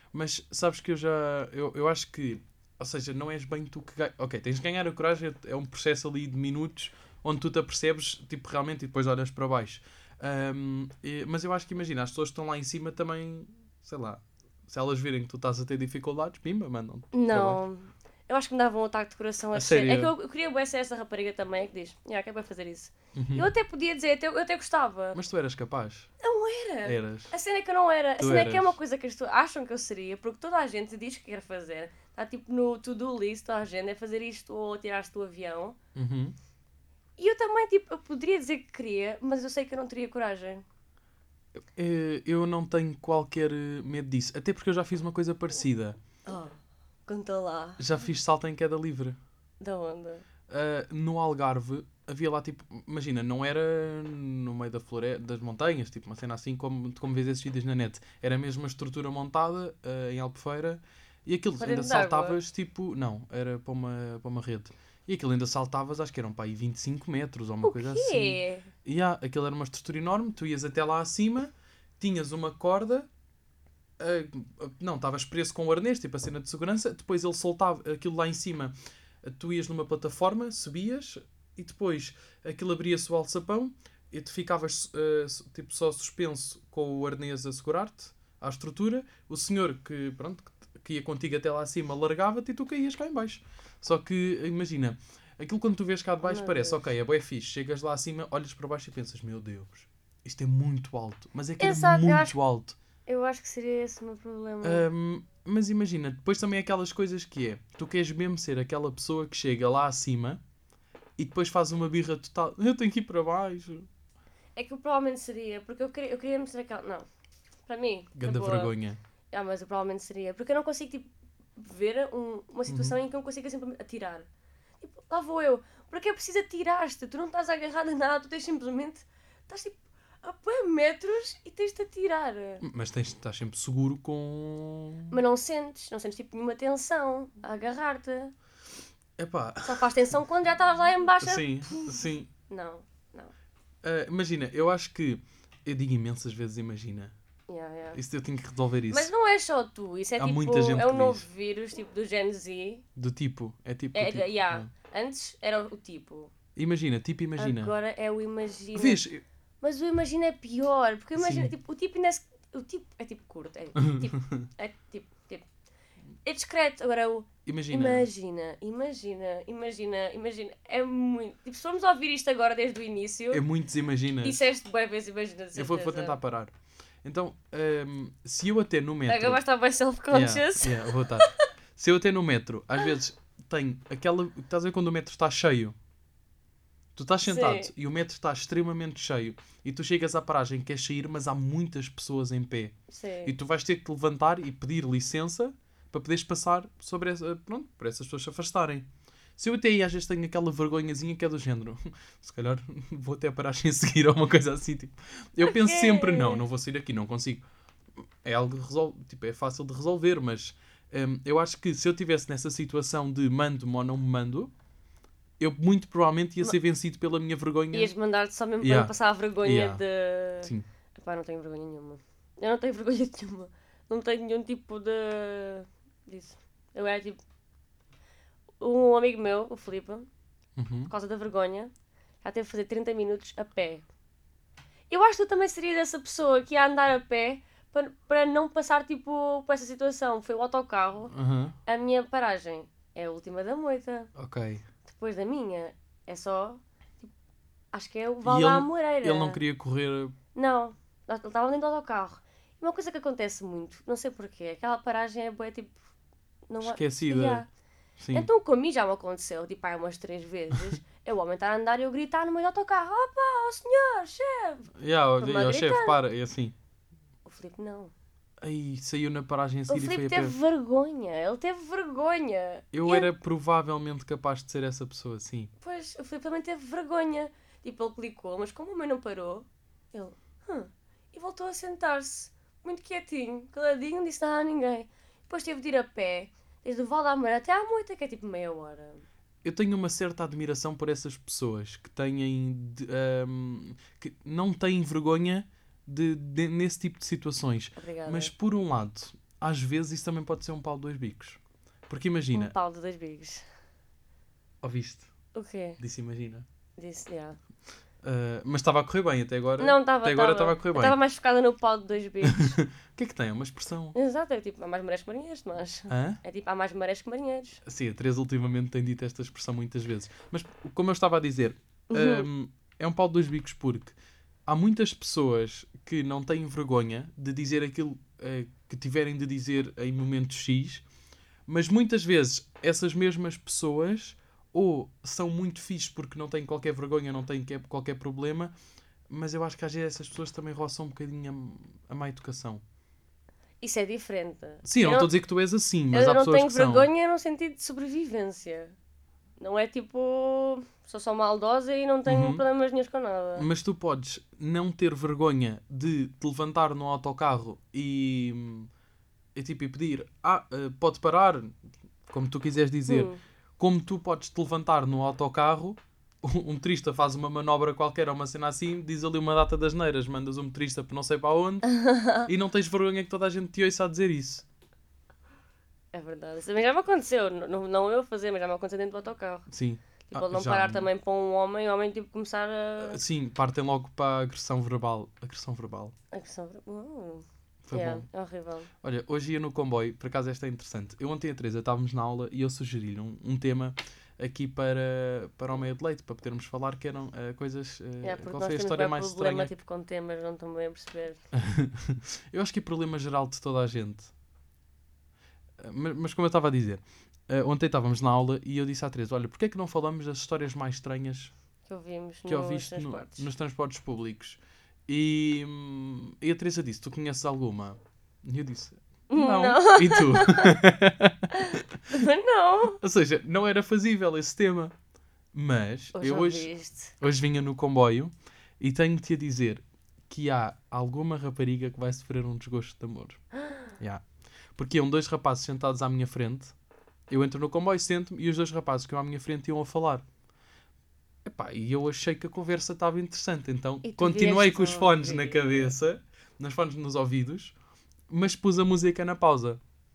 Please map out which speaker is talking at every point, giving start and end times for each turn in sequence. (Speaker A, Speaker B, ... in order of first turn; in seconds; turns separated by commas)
Speaker A: 0.1-17.6, Speaker B: 17.1-25.2, Speaker A: 19.5-20.1, Speaker A: 23.1-23.5, Speaker A: 25.1-26.1, Speaker B: 26.2-35.8, Speaker A: 26.8-27.3, Speaker A: 28.2-28.8, Speaker A: 36.0-36.4, Speaker B: 37.2-40.6, Speaker A: 41.5-46.0, Speaker B: 46.3-47.9, Speaker A: 47.8-49.2, Speaker B: 49.6-50.2, Speaker A: 50.5-73.1, Speaker B: 61.6-62.4, Speaker B: 67.6-68.7, Speaker A: 74.0-102.8, Speaker B: 96.2-96.8, Speaker B: 101.6-102.4, Speaker B: 103.1-104.8, Speaker A: 104.6-110.4, Speaker A: 111.2-113.9, Speaker B: 114.6-117.1, Speaker B: 117.7-118.7, Speaker A: 118.2-119.0, Speaker B: 119.3-124.3, Speaker A: 122.7-123.0, Speaker B: 124.8-132.6, Speaker A: 132.6-135.2, Speaker B: 135.1-138.3, Speaker A: 139.2-139.9, Speaker B: 139.7-143.3, Speaker A: 141.2-142.3, Speaker A: 143.8-147.1, Speaker B: 147.5-148.0, Speaker A: 147.9-149.1, Speaker B: 148.9-152.8, Speaker A: 150.2-151.2, Speaker A: 153.0-154.7, Speaker B: 153.9-156.3, Speaker A: 156.6-157.7, Speaker B: 157.4-159.0, Speaker A: 158.8-159.2, Speaker B: 159.6-165.5, Speaker A: 161.2-161.5, Speaker A: 163.8-164.5, Speaker B: 166.2-173.4, Speaker A: 167.4-168.1, Speaker A: 173.3-174.4, Speaker B: 174.2-176.2, Speaker A: 175.6-179.4, Speaker B: 179.1-181.3, Speaker A: 180.1-185.8, Speaker A: 186.9-192.7, Speaker B: 187.2-187.7, Speaker B: 192.9-193.3, Speaker A: 193.2-207.4, Speaker B: 205.4-206.4, Speaker A: 208.0-214.5, Speaker A: 215.4-217.9, Speaker B: 217.7-227.2, Speaker A: 218.6-219.8, Speaker A: 220.4-220.7, Speaker B: 228.6-230.1, Speaker A: 230.6-230.9, Speaker B: 230.9-233.8, Speaker B: 234.9-241.1, Speaker A: 241.1-241.6, Speaker B: 241.7-244.1, Speaker A: 244.2-244.7, Speaker B: 244.8-247.1, Speaker B: 247.7-249.4, Speaker A: 248.2-250.2, Speaker B: 250.3-255.8, Speaker B: 256.5-257.5, Speaker A: 256.6-257.4, Speaker A: 258.0-258.3, Speaker B: 258.1-266.0, Speaker A: 264.8-266.6, Speaker B: 267.3-267.9, Speaker A: 268.4-270.4, Speaker B: 269.7-273.1, Speaker A: 272.7-275.5, Speaker B: 275.6-289.0, Speaker A: 289.4-302.5, Speaker B: 297.8-298.3, Speaker B: 302.3-303.5, Speaker A: 304.6-305.1, Speaker B: 305.3-305.8, Speaker A: 305.8-306.5, Speaker B: 306.8-307.4, Speaker A: 308.0-311.0, Speaker B: 309.6-312.6, Speaker A: 312.2-313.9, Speaker B: 313.9-317.6, Speaker A: 315.9-316.2, Speaker A: 317.6-323.9, Speaker B: 321.9-322.3, Speaker A: 324.5-330.8, Speaker A: 331.5-338.5, Speaker A: 339.1-342.6, Speaker B: 343.6-345.1, Speaker A: 344.6-346.9, Speaker B: 345.9-348.8, Speaker B: 349.4-353.5, Speaker A: 352.1-352.4, Speaker A: 353.4-358.7, Speaker A: 359.4-374.4, Speaker B: 362.9-363.2, Speaker B: 371.6-372.3, Speaker B: 375.9-379.5, Speaker A: 379.5-380.9, Speaker B: 380.1-383.0, Speaker A: 382.8-385.9, Speaker B: 386.1-388.7, Speaker A: 387.6-388.1, Speaker A: 388.8-399.5, Speaker B: 398.0-401.2, Speaker A: 401.3-404.1, Speaker A: 405.6-411.3, Speaker B: 411.7-413.3, Speaker A: 412.3-422.1, Speaker B: 419.1-420.6, Speaker B: 421.3-422.8, Speaker A: 422.8-424.7, Speaker A: 425.3-433.2, Speaker B: 425.9-426.9, Speaker B: 433.4-433.7, Speaker A: 433.8-434.0, Speaker A: 434.6-436.5, Speaker A: 437.1-440.0, Speaker A: 441.2-447.6, Speaker B: 443.8-445.8, Speaker A: 448.1-449.6